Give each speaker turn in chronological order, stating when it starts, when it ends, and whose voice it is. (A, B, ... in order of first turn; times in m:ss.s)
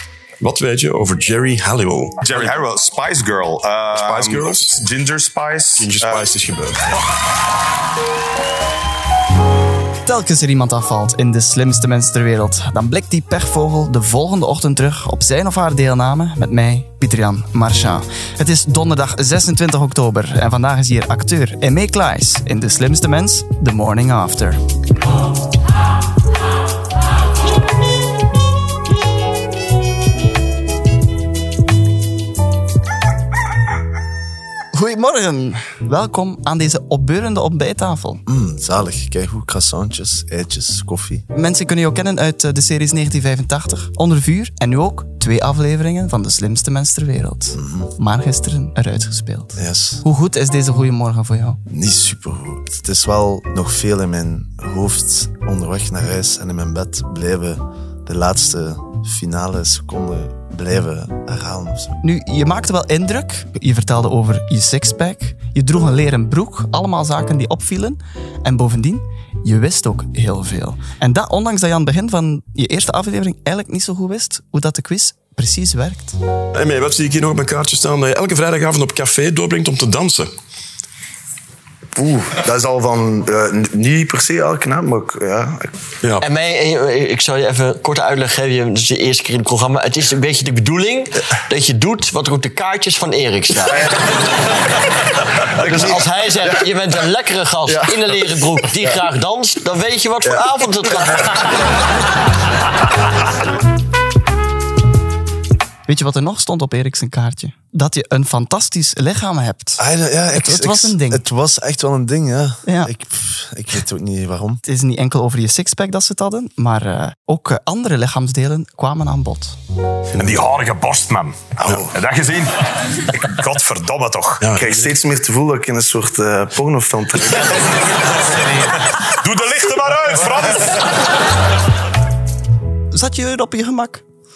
0:00.4-0:02.6 A
0:02.2-0:06.3 B
0:03.9-0:04.8 A
0:05.7-0:07.0 A
0:10.0-0:24.6 C
0:34.7-0:38.2 C
0:38.3-0:41.2 D
0:41.3-0:51.6 C
0:47.6-0:47.9 D
0:49.6-0:50.0 D
0:51.7-1:02.0 D
1:02.0-1:16.2 C
1:16.5-1:20.3 A
1:21.9-1:25.7 D
1:26.0-1:26.3 A
1:26.2-1:33.9 E
1:35.6-1:36.0 D
1:35.6-1:41.3 E
1:45.9-1:51.2 C
1:49.8-1:54.6 D
1:52.6-1:52.9 C
1:54.6-1:59.6 C
2:00.1-2:00.4 A
2:00.2-2:01.4 B
2:01.6-2:01.9 D
2:01.9-2:02.5 B
2:03.2-2:04.4 B
2:04.4-2:04.9 A
2:04.5-2:07.8 D
2:09.2-2:10.8 B
2:12.9-2:14.0 C